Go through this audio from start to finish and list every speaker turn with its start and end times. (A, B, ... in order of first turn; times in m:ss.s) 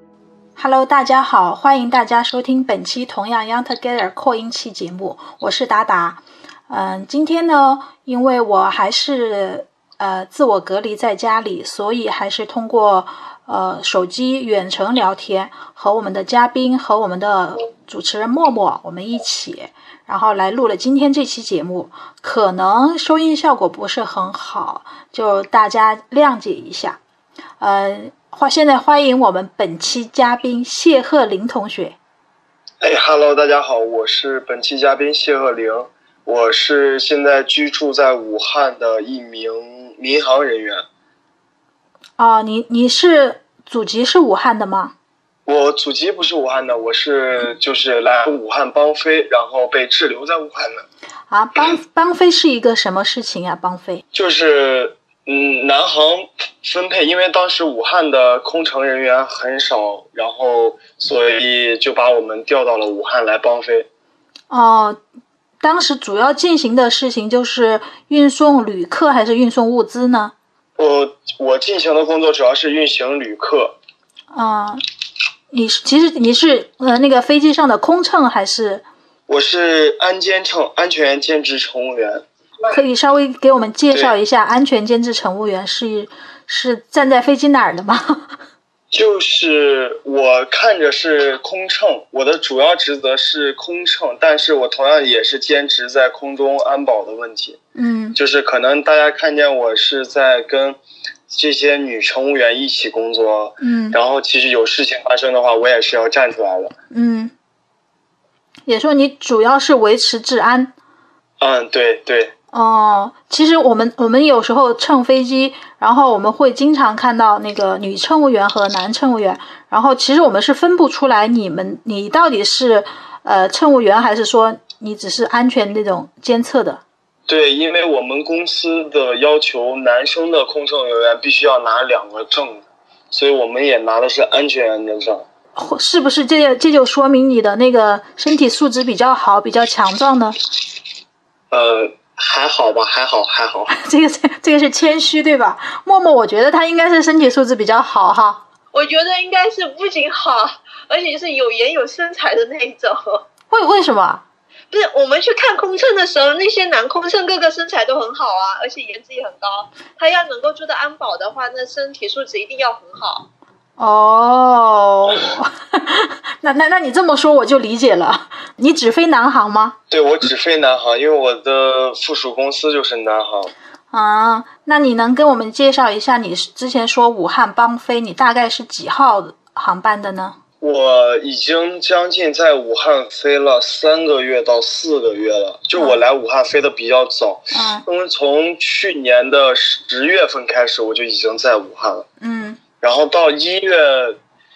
0:00.6-0:27.0 A
0:27.6-0:32.0 A
0:32.8-0:40.8 B
0:42.2-0:44.9 A
0:45.4-0:50.8 B
0:51.3-0:54.0 A
0:54.1-1:03.9 B
1:04.5-1:05.0 A
1:05.6-1:10.3 A
1:10.8-1:13.8 B
1:14.3-1:14.8 A
1:15.5-1:18.8 A
1:19.3-1:22.8 B
1:22.7-1:28.3 A
1:23.9-1:24.2 B
1:28.9-1:37.6 B
1:37.7-1:38.2 A
1:38.2-1:40.8 B
1:41.3-1:46.7 B
1:43.6-1:44.0 A
1:46.9-1:47.3 A
1:48.6-1:50.7 A
1:51.4-1:52.3 B
1:52.5-2:06.8 A
2:07.3-2:15.2 B
2:15.5-2:20.4 A
2:21.5-2:23.7 B
2:23.7-2:28.4 A
2:28.7-2:33.2 C
2:33.5-2:34.2 A
2:34.7-2:43.3 C
2:43.8-2:49.8 A
2:49.9-2:53.5 B
2:53.9-3:00.4 A
3:00.6-3:12.0 B
3:05.7-3:06.0 A
3:07.5-3:07.8 A
3:12.2-3:12.6 A
3:12.8-3:14.2 B